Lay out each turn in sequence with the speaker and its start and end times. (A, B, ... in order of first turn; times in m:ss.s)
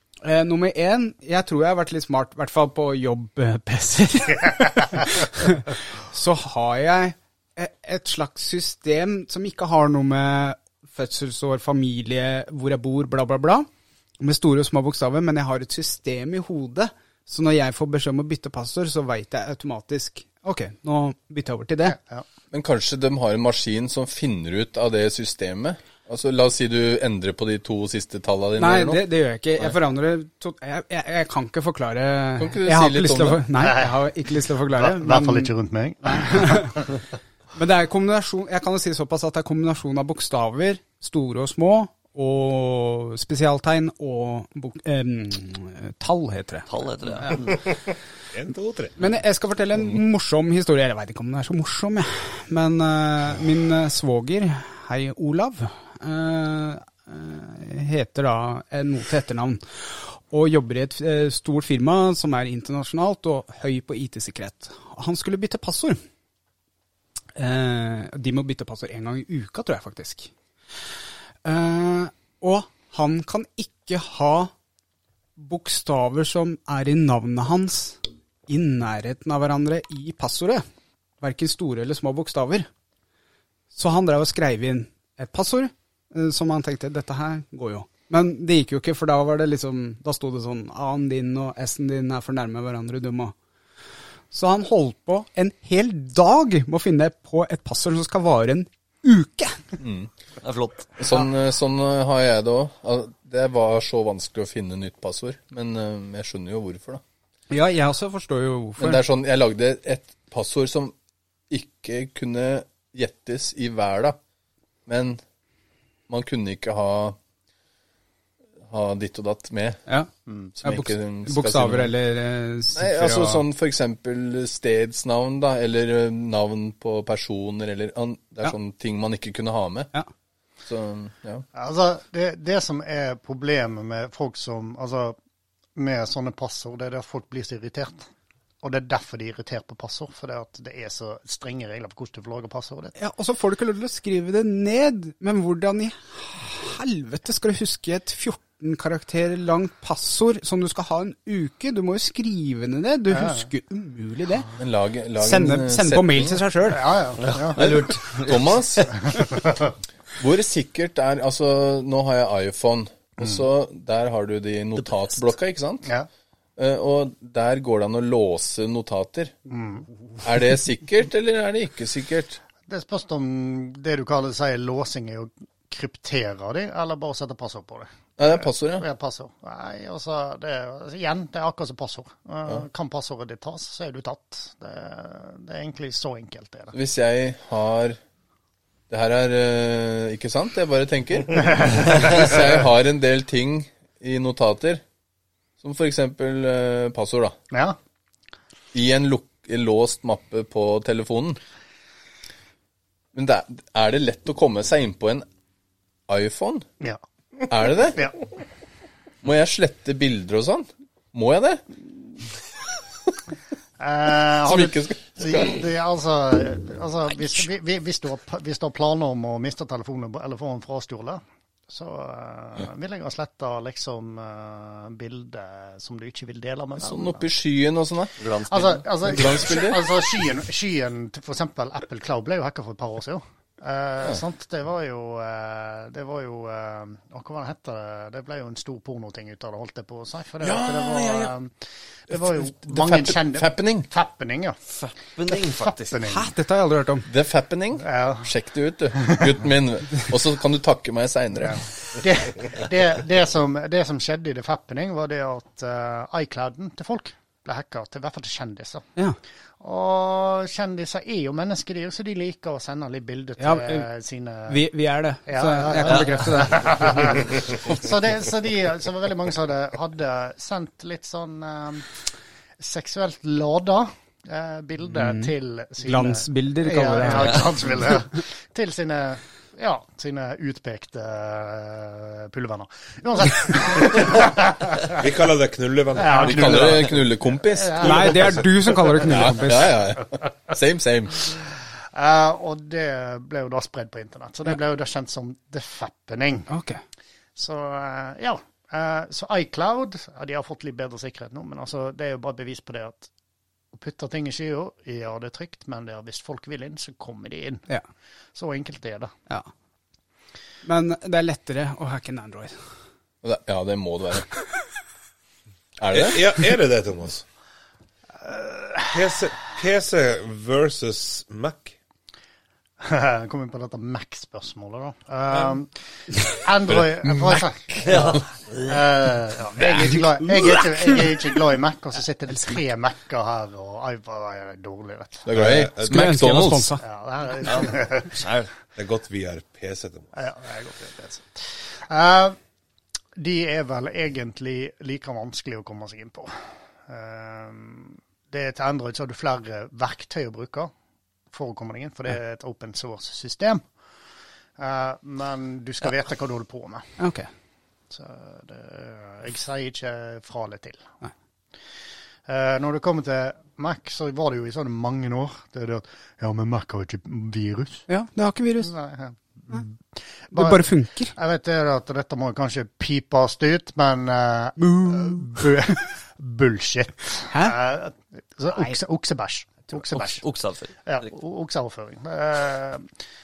0:00.2-0:13.7 A
0:14.2-0:22.0 A
0:21.8-0:22.2 B
0:22.5-0:29.0 C
0:28.6-0:35.5 A
0:32.4-0:33.4 C
0:33.6-0:34.0 B
0:34.7-0:36.9 B
0:36.0-0:36.8 A
0:37.6-0:47.5 A
0:46.7-0:47.6 D
0:48.3-0:49.0 E
0:49.0-1:06.0 A
1:07.4-1:10.3 A
1:11.4-1:14.5 A
1:15.4-1:20.6 A
1:21.2-1:22.7 A
1:23.7-1:33.3 A
1:34.3-1:39.6 A
1:39.8-1:40.1 C
1:40.4-1:40.9 D
1:41.0-1:47.0 C
1:47.5-1:49.0 A
1:48.8-1:50.9 C
1:51.5-1:54.2 C
1:54.9-1:55.2 C
1:56.1-1:57.2 C
1:58.6-1:59.8 C
2:00.3-2:00.5 B
2:00.6-2:01.9 C
2:00.6-2:03.4 A
2:02.7-2:09.9 C
2:10.6-2:11.4 C
2:11.5-2:15.2 B
2:15.7-2:18.1 B
2:18.6-2:22.9 B
2:23.0-2:34.5 A
2:33.1-2:33.4 B
2:34.6-2:36.4 C
2:35.2-2:36.8 A
2:36.6-2:37.7 B
2:37.2-2:38.6 D
2:37.5-2:39.2 C
2:39.1-2:39.7 B
2:40.2-2:45.9 C
2:46.6-2:49.3 C
2:49.5-2:49.9 B
2:50.2-2:52.4 C
2:52.7-2:57.9 B
2:58.2-2:58.8 C
2:58.8-3:06.7 B
3:06.7-3:08.0 C
3:08.9-3:14.8 C
3:15.6-3:17.4 C
3:17.5-3:17.8 B
3:18.7-3:21.4 C
3:23.1-3:25.2 C
3:26.1-3:26.6 C
3:27.5-3:28.1 C
3:29.2-3:31.6 C
3:33.8-3:47.2 B
3:34.4-3:35.6 C
3:46.8-3:48.1 C
3:48.2-3:49.4 D
3:48.5-4:01.5 B
3:49.0-3:49.8 C
4:00.4-4:01.3 C
4:02.1-4:04.6 B
4:02.1-4:03.9 C
4:04.8-4:05.9 D
4:05.3-4:06.3 B
4:06.0-4:07.1 A
4:07.1-4:11.6 C
4:07.8-4:08.3 B
4:11.5-4:18.9 B
4:19.6-4:24.6 B
4:23.4-4:23.9 A
4:24.5-4:27.2 A
4:25.3-4:45.0 B
4:25.8-4:27.3 D
4:34.9-4:37.5 A
4:45.0-4:46.8 E
4:46.0-4:49.3 B
4:46.2-4:48.1 C
4:47.8-4:49.7 A
4:49.0-4:51.3 C
4:51.3-4:56.5 B
4:56.5-4:56.8 A
4:57.4-5:03.1 B
5:03.7-5:07.7 B
5:08.3-5:09.1 B
5:10.6-5:12.6 A
5:13.2-5:14.3 C
5:15.8-5:16.3 C
5:15.9-5:17.2 E
5:18.2-5:18.9 B
5:18.9-5:21.7 E
5:22.8-5:35.3 B
5:26.7-5:28.2 C
5:27.8-5:28.8 D
5:30.0-5:30.6 A
5:32.3-5:32.6 A
5:35.2-5:36.8 C
5:35.3-5:36.0 E
5:35.8-5:36.8 A
5:36.8-5:38.2 B
5:37.4-5:38.5 D
5:38.8-5:40.1 E
5:40.1-5:42.4 B
5:43.2-5:50.7 B
5:51.3-5:53.6 B
5:54.6-5:57.0 B
5:57.0-5:57.3 A
5:57.9-6:00.9 B
6:02.3-6:07.8 B
6:07.9-6:08.7 A
6:08.6-6:20.2 B
6:10.3-6:11.1 A
6:14.6-6:15.5 A
6:17.3-6:17.6 A
6:19.9-6:21.1 D
6:20.8-6:22.9 B